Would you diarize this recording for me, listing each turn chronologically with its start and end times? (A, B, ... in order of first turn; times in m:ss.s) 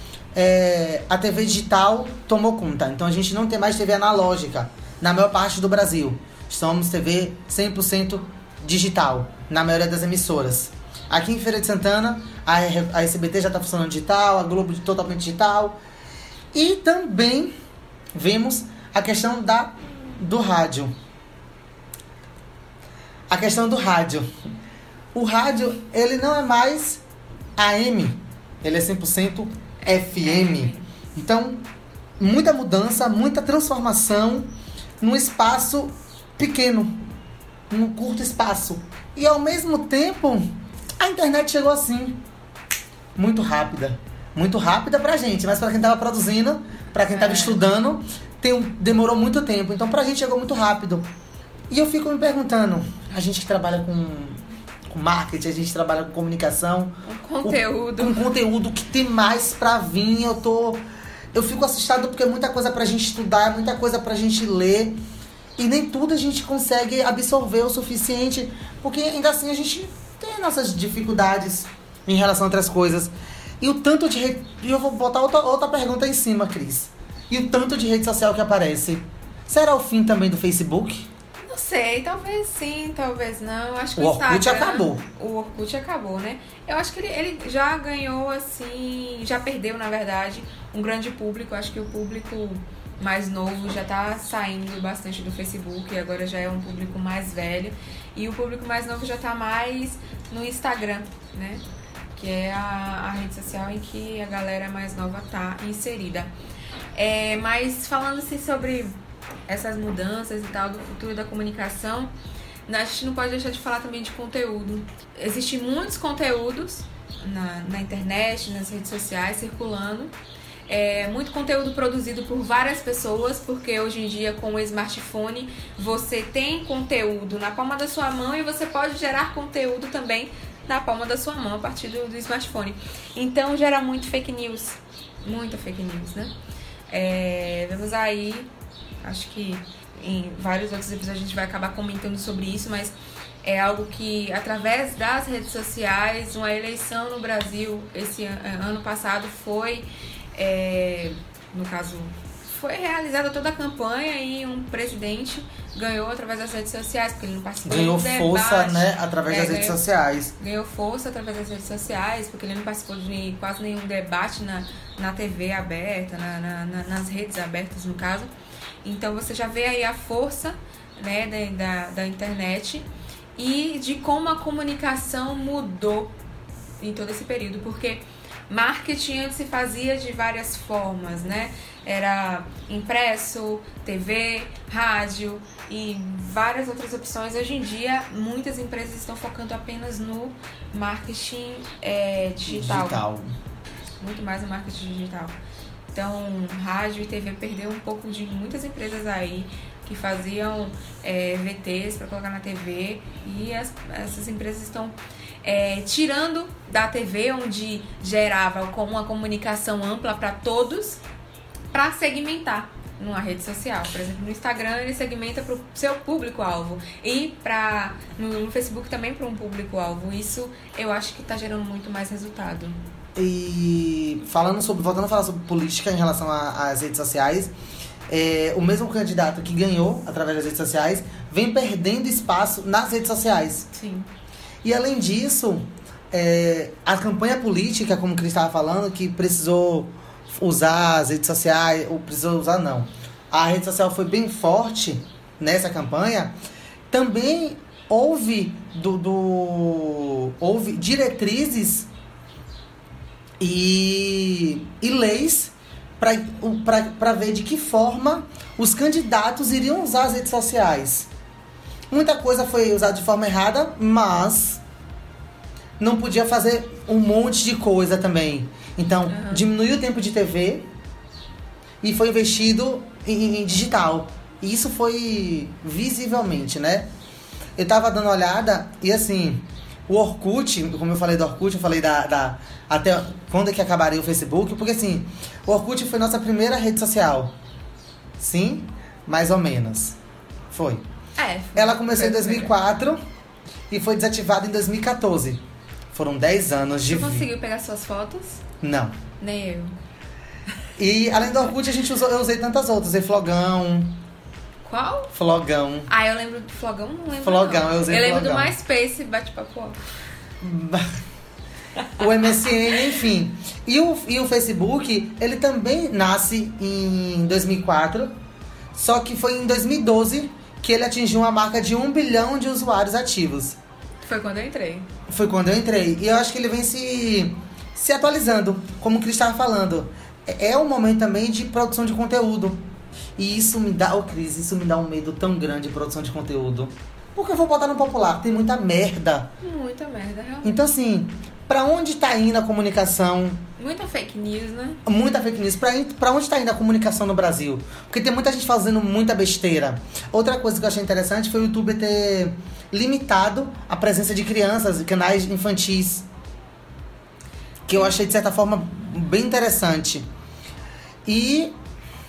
0:00.3-0:15.8 A
0:16.5-0:17.5 A
0:18.1-0:20.9 A
0:23.3-0:24.3 A
0:25.1-0:27.0 A
0:27.6-0:31.6 A
0:29.8-0:30.9 B
0:32.2-0:34.5 A
0:35.0-0:37.0 A
0:37.7-0:42.2 A
0:43.2-0:51.0 A
0:47.1-0:47.6 B
0:51.7-1:00.8 A
0:57.0-0:58.3 B
1:01.3-1:05.0 A
1:05.6-1:21.0 A
1:21.4-1:41.6 B
1:24.0-1:25.0 A
1:42.1-1:46.3 B
1:46.9-1:52.1 B
1:52.6-2:00.1 B
2:00.7-2:16.3 B
2:16.9-2:18.5 B
2:19.0-2:39.8 B
2:37.6-2:40.3 A
2:40.4-2:48.3 B
2:48.8-2:56.2 B
2:56.8-3:13.0 B
3:12.4-3:13.3 A
3:14.0-3:15.4 B
3:15.9-3:31.0 B
3:31.7-3:42.8 B
3:43.2-3:47.5 A
3:48.1-3:53.7 A
3:53.7-3:54.1 B
3:54.6-4:06.3 A
4:06.9-4:11.9 A
4:13.4-4:21.1 A
4:21.9-4:24.6 A
4:25.8-4:30.7 A
4:29.1-4:29.4 B
4:31.8-4:36.9 A
4:37.6-4:47.3 A
4:48.2-4:50.0 A
4:50.5-4:50.8 A
4:51.2-4:52.6 B
4:51.6-4:53.0 A
4:53.7-4:55.4 A
4:55.9-4:57.3 A
4:56.9-4:58.4 B
4:58.6-4:59.0 A
4:59.2-4:59.8 B
5:00.8-5:04.0 A
5:04.6-5:05.1 B
5:05.1-5:05.9 A
5:05.9-5:09.8 B
5:07.2-5:08.5 A
5:10.4-5:10.9 A
5:11.9-5:18.1 A
5:18.7-5:23.6 A
5:24.0-5:24.9 B
5:25.1-5:32.6 A
5:33.2-5:39.3 A
5:39.4-5:40.6 B
5:40.4-5:43.4 A
5:43.6-5:44.8 B
5:44.8-5:56.0 A
5:57.7-6:00.0 A
6:01.0-6:01.5 A